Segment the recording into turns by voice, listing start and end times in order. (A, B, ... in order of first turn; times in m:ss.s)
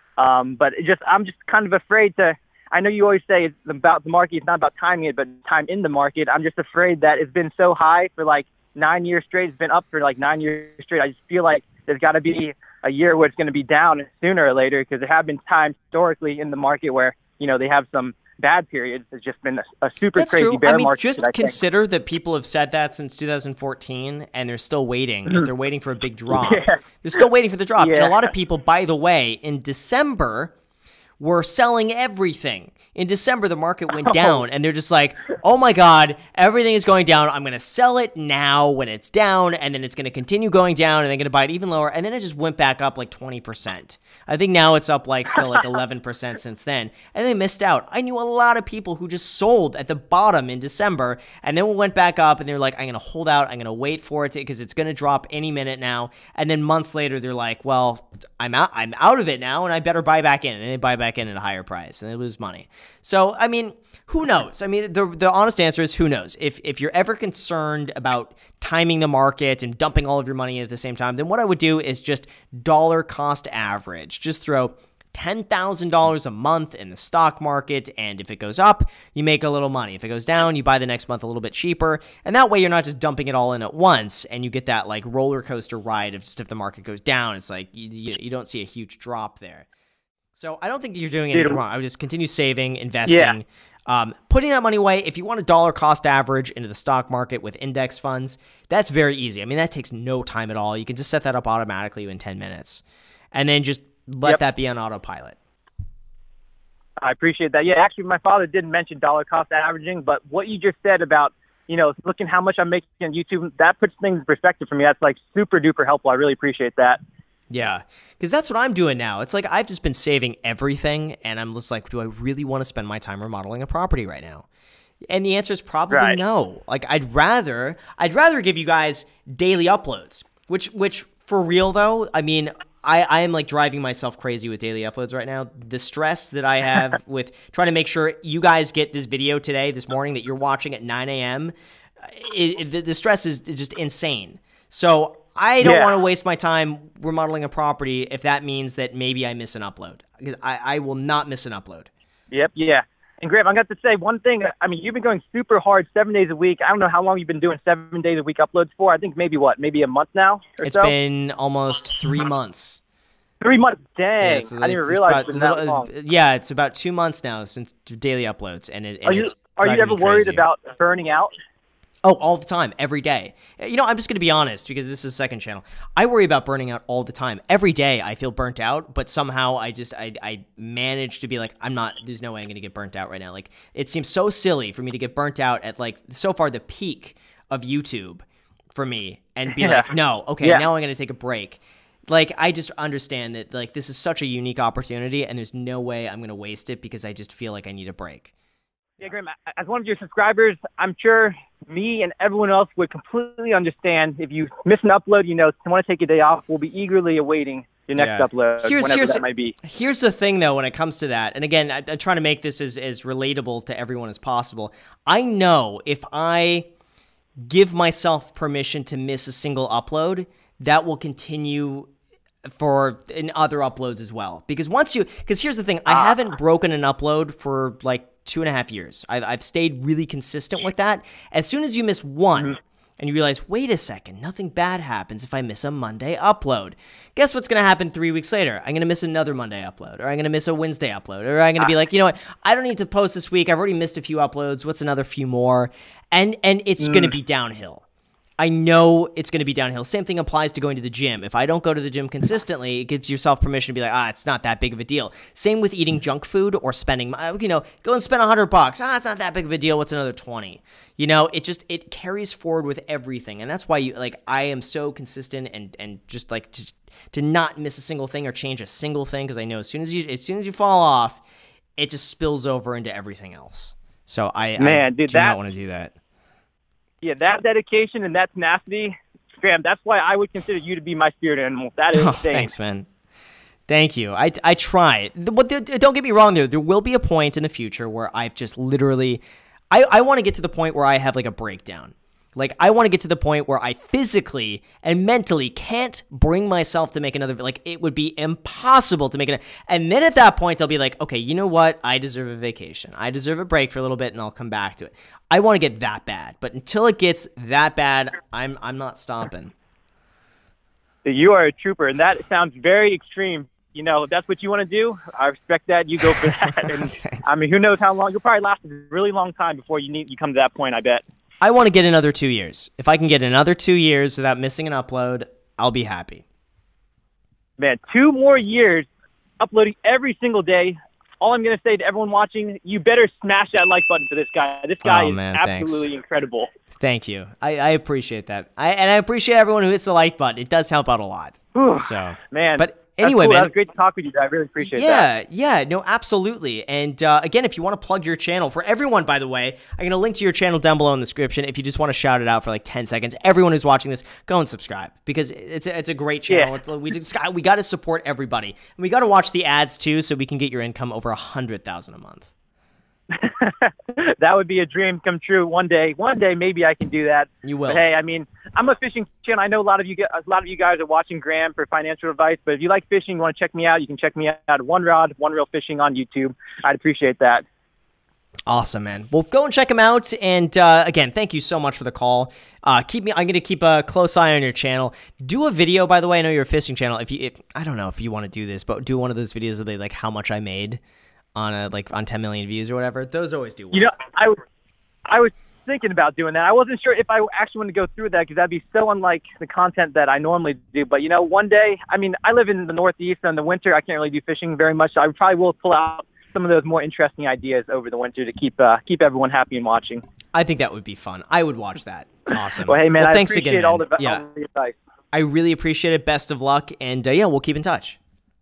0:00.2-0:21.6 A
0:20.2-0:30.5 B
0:26.3-0:26.8 A
0:27.8-0:28.2 A
0:31.2-1:29.7 B
0:34.0-0:34.4 A
1:30.3-1:45.4 B
1:31.3-1:31.6 A
1:33.1-1:33.4 A
1:47.0-1:57.0 A
1:57.5-2:04.5 B
2:05.1-2:31.9 B
2:05.9-2:06.2 A
2:25.6-2:25.9 A
2:32.3-2:40.9 A
2:40.6-2:42.8 B
2:43.4-2:45.9 A
2:44.2-2:50.4 B
2:49.0-2:51.3 A
2:52.0-3:18.3 B
3:09.6-3:09.9 A
3:10.4-3:10.7 A
3:19.0-3:29.6 A
3:28.0-3:36.7 B
3:37.5-3:41.9 B
3:42.5-4:07.8 B
3:45.9-3:46.2 A
4:06.8-4:07.1 A
4:08.4-4:31.2 B
4:31.8-4:36.0 B
4:34.6-4:35.4 A
4:37.0-4:42.5 A
4:42.0-4:42.9 B
4:43.7-5:09.5 B
5:11.0-5:21.0 A
5:21.4-5:26.2 B
5:27.6-5:28.9 A
5:29.4-5:36.5 A
5:34.8-5:35.9 B
5:36.8-5:43.5 B
5:41.6-5:45.1 A
5:44.6-6:02.3 B
5:56.3-5:56.5 A
6:03.1-6:17.4 A
6:07.4-6:07.8 B
6:18.5-6:30.8 B
6:31.4-6:33.9 B
6:33.7-6:34.4 A
6:35.1-6:50.0 A
6:50.3-6:54.2 B
6:52.7-6:54.8 A
6:55.1-6:58.0 B